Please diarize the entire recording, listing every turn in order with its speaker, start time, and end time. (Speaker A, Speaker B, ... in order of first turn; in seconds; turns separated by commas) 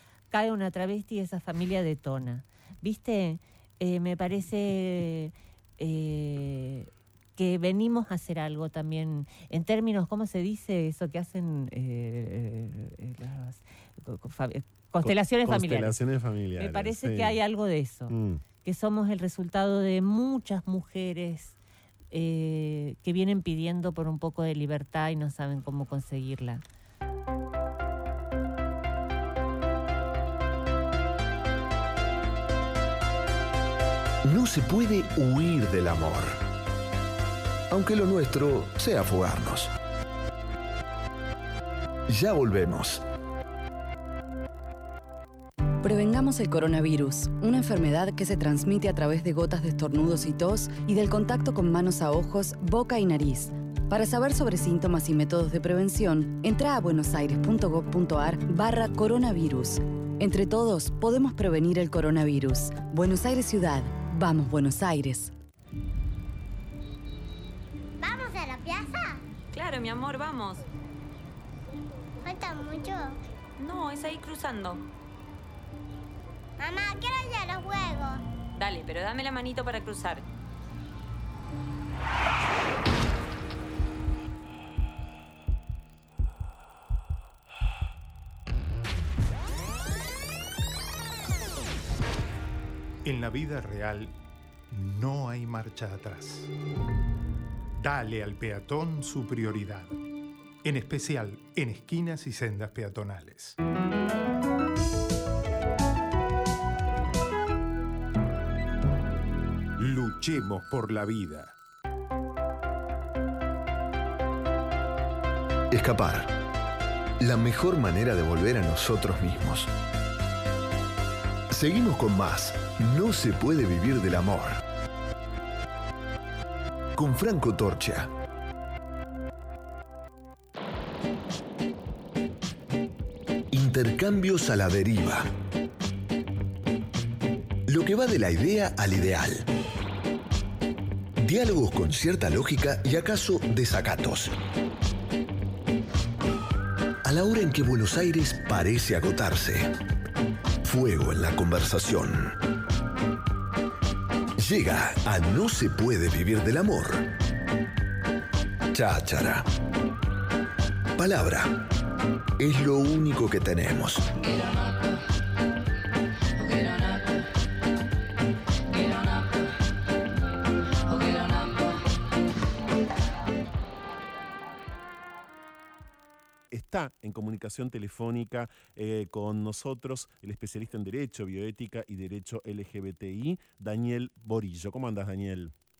Speaker A: 0.3-16.0, Speaker B: 15.0-17.4, Speaker A: 16.6-21.5, Speaker B: 18.1-18.4, Speaker A: 22.1-26.6, Speaker C: 34.2-36.4, Speaker C: 37.7-39.7, Speaker C: 42.1-43.0, Speaker D: 45.8-65.3, Speaker E: 68.0-69.2, Speaker F: 69.5-70.6, Speaker E: 72.2-73.2, Speaker F: 73.6-74.8, Speaker E: 76.6-78.2, Speaker F: 78.5-80.2, Speaker G: 93.0-94.1, Speaker G: 94.7-96.5, Speaker G: 97.8-100.0, Speaker G: 100.6-103.5, Speaker G: 109.8-111.5, Speaker C: 115.7-116.3, Speaker C: 117.2-119.7, Speaker C: 121.5-124.6, Speaker C: 127.0-128.1, Speaker C: 133.5-135.3, Speaker C: 137.7-139.5, Speaker C: 141.2-144.3, Speaker C: 147.0-149.7, Speaker C: 150.6-152.3, Speaker C: 154.4-157.1, Speaker C: 158.7-159.4, Speaker C: 160.9-161.6, Speaker C: 162.4-164.0, Speaker B: 176.5-185.5